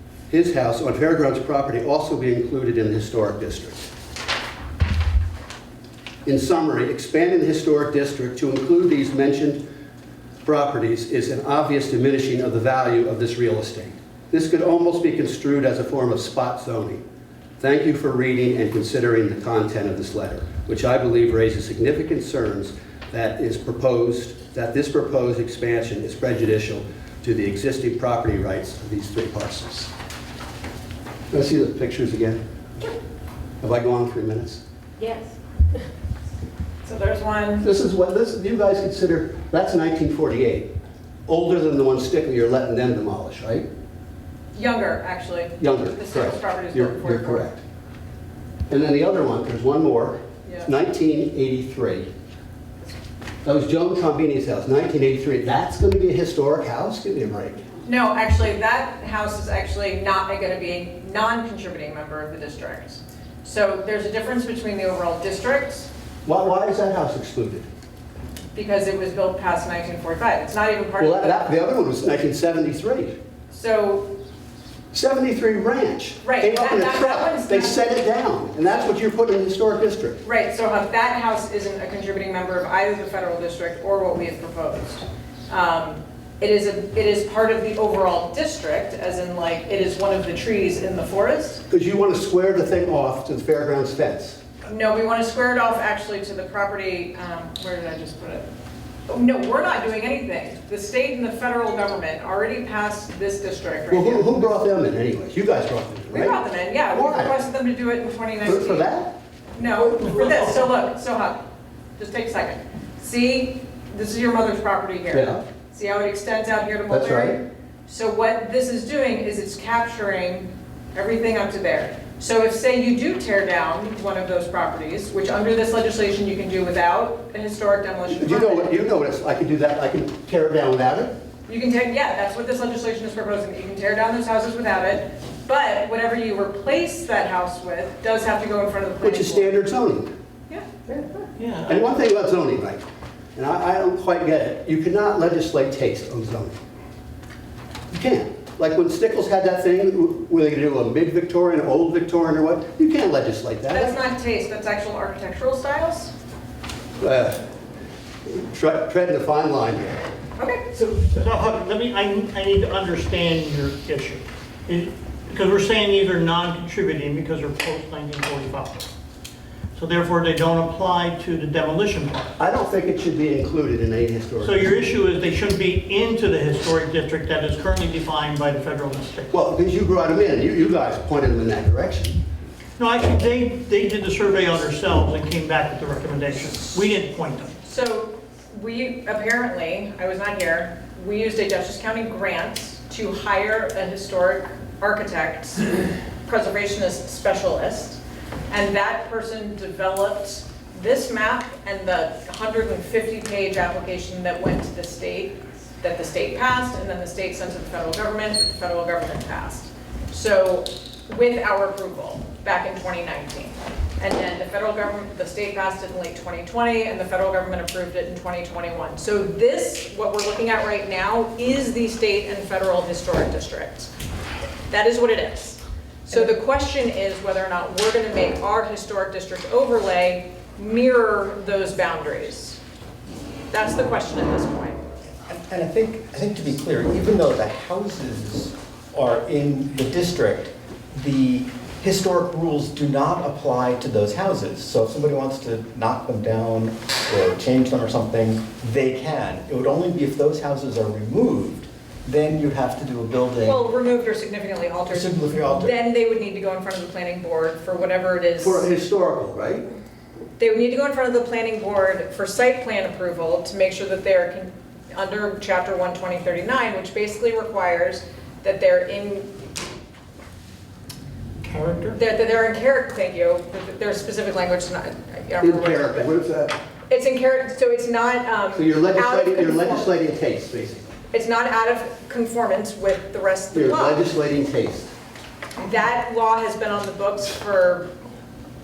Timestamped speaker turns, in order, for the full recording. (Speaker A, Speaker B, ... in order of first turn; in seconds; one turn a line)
Speaker A: 0.3-3.8
Speaker A: 6.2-9.6
Speaker A: 10.4-17.0
Speaker A: 17.6-29.9
Speaker A: 31.3-32.4
Speaker A: 33.6-34.6
Speaker B: 36.8-37.6
Speaker A: 37.6-40.7
Speaker A: 41.3-43.7
Speaker B: 44.5-47.5
Speaker A: 45.6-47.6
Speaker A: 48.7-52.1
Speaker A: 53.4-57.6
Speaker B: 57.9-65.9
Speaker A: 66.2-67.7
Speaker B: 68.5-71.5
Speaker A: 71.0-73.2
Speaker B: 73.5-74.1
Speaker A: 74.9-80.2
Speaker B: 76.2-78.0
Speaker B: 80.2-91.6
Speaker A: 91.7-94.4
Speaker B: 94.7-98.5
Speaker B: 99.1-104.6
Speaker A: 103.9-106.4
Speaker B: 106.1-108.9
Speaker A: 106.9-107.3
Speaker A: 108.4-109.1
Speaker B: 109.5-111.4
Speaker C: 110.0-110.3
Speaker B: 112.0-128.7
Speaker A: 115.1-115.4
Speaker A: 116.9-117.4
Speaker A: 128.1-131.1
Speaker B: 131.5-139.6
Speaker A: 139.0-140.1
Speaker C: 141.4-141.8
Speaker A: 141.7-142.8
Speaker A: 143.3-146.6
Speaker A: 147.9-153.9
Speaker B: 153.7-156.1
Speaker A: 157.0-157.4
Speaker A: 158.3-160.0
Speaker B: 160.4-160.7
Speaker C: 160.8-168.8
Speaker C: 169.8-172.3
Speaker A: 172.4-174.6
Speaker C: 174.4-179.3
Speaker A: 179.3-182.2
Speaker C: 182.8-187.5
Speaker B: 187.6-223.9
Speaker B: 224.7-232.6
Speaker B: 233.5-234.8
Speaker D: 235.3-253.7
Speaker B: 253.4-258.6
Speaker D: 254.9-255.7
Speaker A: 258.4-259.7
Speaker B: 260.4-269.3
Speaker C: 271.4-271.9
Speaker B: 271.9-276.1
Speaker A: 275.4-276.6
Speaker B: 276.9-279.9
Speaker A: 278.5-280.8
Speaker B: 281.1-284.0
Speaker A: 283.5-284.9
Speaker B: 285.6-287.9